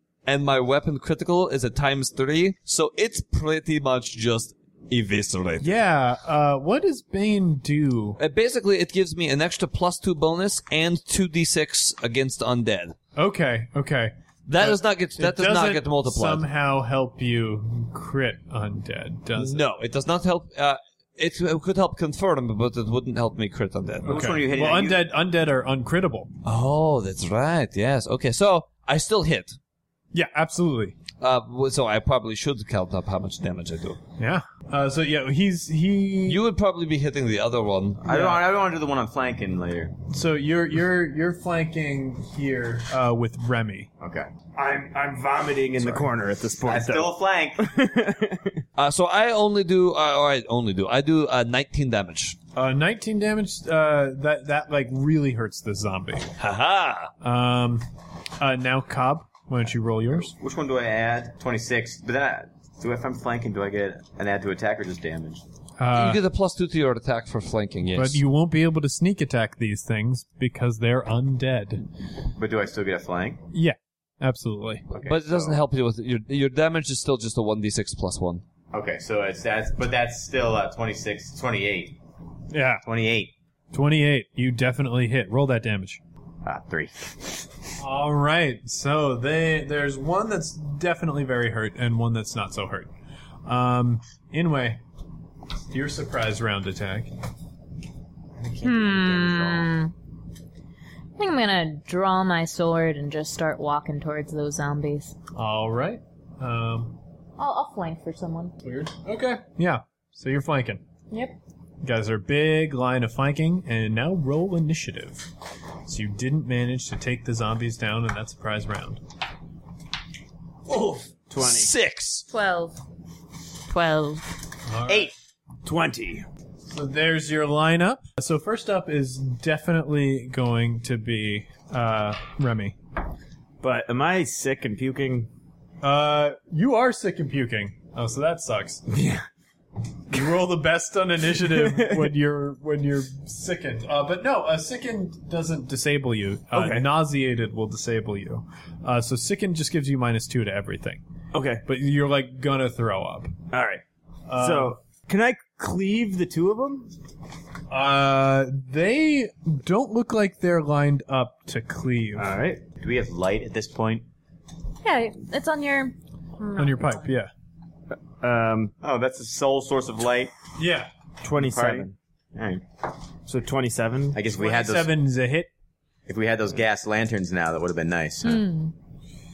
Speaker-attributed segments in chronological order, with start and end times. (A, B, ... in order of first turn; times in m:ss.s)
0:00.3-0:05.7 A
0:05.6-0:08.2 B
0:08.2-0:13.0 A
0:13.2-0:19.6 B
0:14.5-0:16.4 A
0:19.4-0:24.3 A
0:24.0-0:26.3 B
0:24.1-0:25.1 C
0:26.4-0:29.6 A
0:30.1-0:31.0 B
0:31.2-0:34.0 A
0:34.2-0:36.4 B
0:36.3-0:38.0 A
0:38.0-0:40.0 C
0:38.1-0:38.4 B
0:40.1-0:43.9 B
0:44.0-0:44.3 C
0:44.6-0:48.6 D
0:46.6-0:47.7 C
0:48.8-0:52.4 A
0:52.6-0:56.3 B
0:56.4-0:57.1 A
0:57.2-0:57.8 B
0:58.4-1:00.3 B
1:00.1-1:05.4 C
1:05.8-1:06.2 B
1:05.9-1:08.2 A
1:07.9-1:11.8 B
1:12.4-1:13.4 C
1:13.5-1:14.9 B
1:14.9-1:15.6 C
1:15.0-1:18.4 A
1:18.7-1:22.0 C
1:22.5-1:22.8 B
1:22.8-1:23.3 C
1:23.7-1:26.0 B
1:26.4-1:27.2 C
1:27.8-1:32.9 B
1:33.4-1:34.8 B
1:35.7-1:37.1 B
1:38.4-1:39.7 C
1:38.6-1:39.9 E
1:41.2-1:45.2 E
1:45.4-1:47.0 B
1:47.4-1:48.6 E
1:48.6-1:50.8 B
1:51.8-1:55.3 B
1:55.9-1:59.0 B
2:00.8-2:01.7 D
2:01.4-2:02.2 A
2:02.3-2:02.8 E
2:03.7-2:04.3 E
2:04.7-2:05.1 B
2:04.9-2:05.1 C
2:05.6-2:06.2 D
2:06.7-2:12.8 B
2:13.6-2:15.3 D
2:15.8-2:18.8 B
2:18.9-2:19.2 D
2:20.1-2:31.0 B
2:21.4-2:22.1 D
2:26.5-2:26.9 D
2:31.3-2:31.6 D
2:31.6-2:33.4 B
2:33.5-2:33.8 D
2:34.3-2:34.8 B
2:34.4-2:36.9 D
2:37.7-2:42.3 B
2:42.2-2:42.6 D
2:42.8-2:44.0 C
2:44.8-2:47.1 E
2:46.6-2:47.3 B
2:48.2-2:48.7 D
2:48.8-2:50.3 C
2:50.6-2:50.9 B
2:51.2-2:51.9 D
2:51.4-2:52.6 C
2:53.3-2:54.2 D
2:54.1-2:55.0 C
2:54.3-2:55.5 B
2:56.1-2:58.5 C
2:58.2-2:58.7 E